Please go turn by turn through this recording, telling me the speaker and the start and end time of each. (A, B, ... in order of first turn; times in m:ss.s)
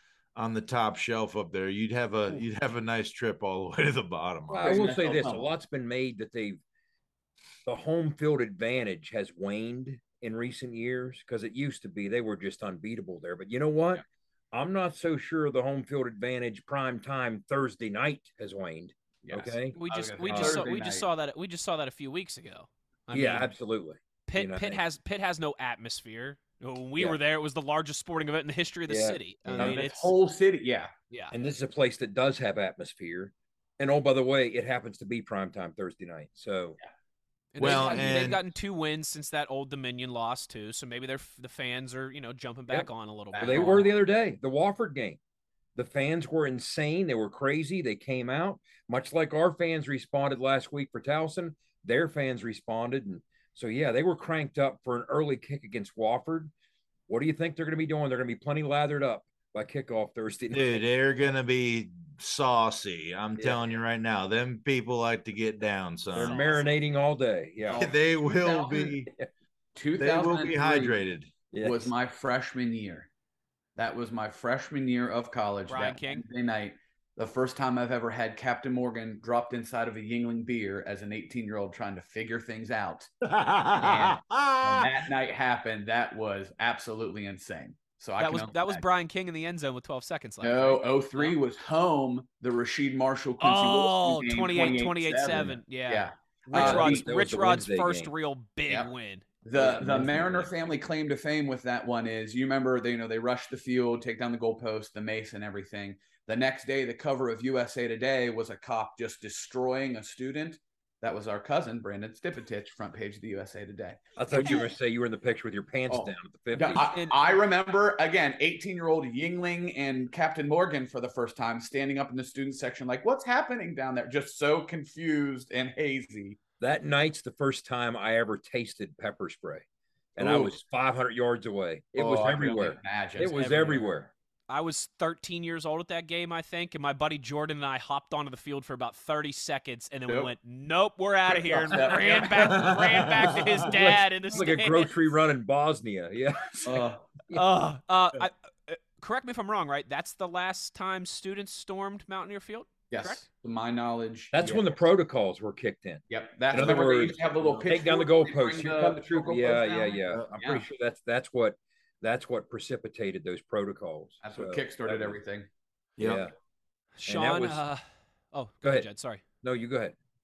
0:00.3-0:04.8 A
0:04.5-0:06.6 B
0:04.6-0:05.5 C
0:07.6-0:19.8 B
0:19.2-0:21.1 C
0:19.7-0:23.5 D
0:20.3-0:20.7 B
0:23.1-0:24.8 B
0:24.3-0:30.1 D
0:28.9-0:29.8 B
0:29.5-0:30.9 C
0:31.3-0:36.8 B
0:37.5-0:43.8 D
0:37.6-0:38.4 A
0:37.7-0:38.1 B
0:43.3-0:43.9 C
0:43.4-0:45.2 B
0:45.8-0:56.5 B
0:57.1-1:00.8 B
1:00.5-1:06.4 A
1:06.1-1:07.9 B
1:06.2-1:06.8 D
1:07.7-1:09.1 A
1:08.4-1:08.7 C
1:08.7-1:09.2 B
1:09.8-1:11.0 C
1:10.0-1:11.3 A
1:11.5-1:11.9 B
1:11.6-1:13.1 C
1:13.8-1:23.1 C
1:15.7-1:16.2 D
1:23.2-1:25.0 A
1:23.8-1:28.8 C
1:28.2-1:31.3 D
1:30.4-1:37.0 C
1:33.4-1:39.8 D
1:36.5-1:38.1 B
1:39.4-1:54.6 C
1:39.6-1:40.2 B
1:54.2-1:56.9 B
1:54.3-1:54.6 D
1:55.9-2:06.4 C
1:56.7-1:57.2 D
2:06.6-2:09.6 B
2:10.2-2:14.1 B
2:10.2-2:10.6 C
2:11.9-2:13.6 C
2:13.3-2:13.9 D
2:14.5-2:24.9 D
2:20.1-2:20.3 C
2:21.3-2:23.4 C
2:22.5-2:23.4 A
2:23.6-2:27.4 B
2:26.6-2:27.0 C
2:27.3-2:33.2 D
2:32.9-2:34.6 C
2:34.3-2:45.2 B
2:36.1-2:40.6 C
2:44.2-2:45.5 C
2:46.0-2:46.2 A
2:46.0-2:46.3 B
2:47.0-2:49.2 D
2:47.1-2:47.6 B
2:48.6-2:48.9 B
2:49.4-2:49.9 B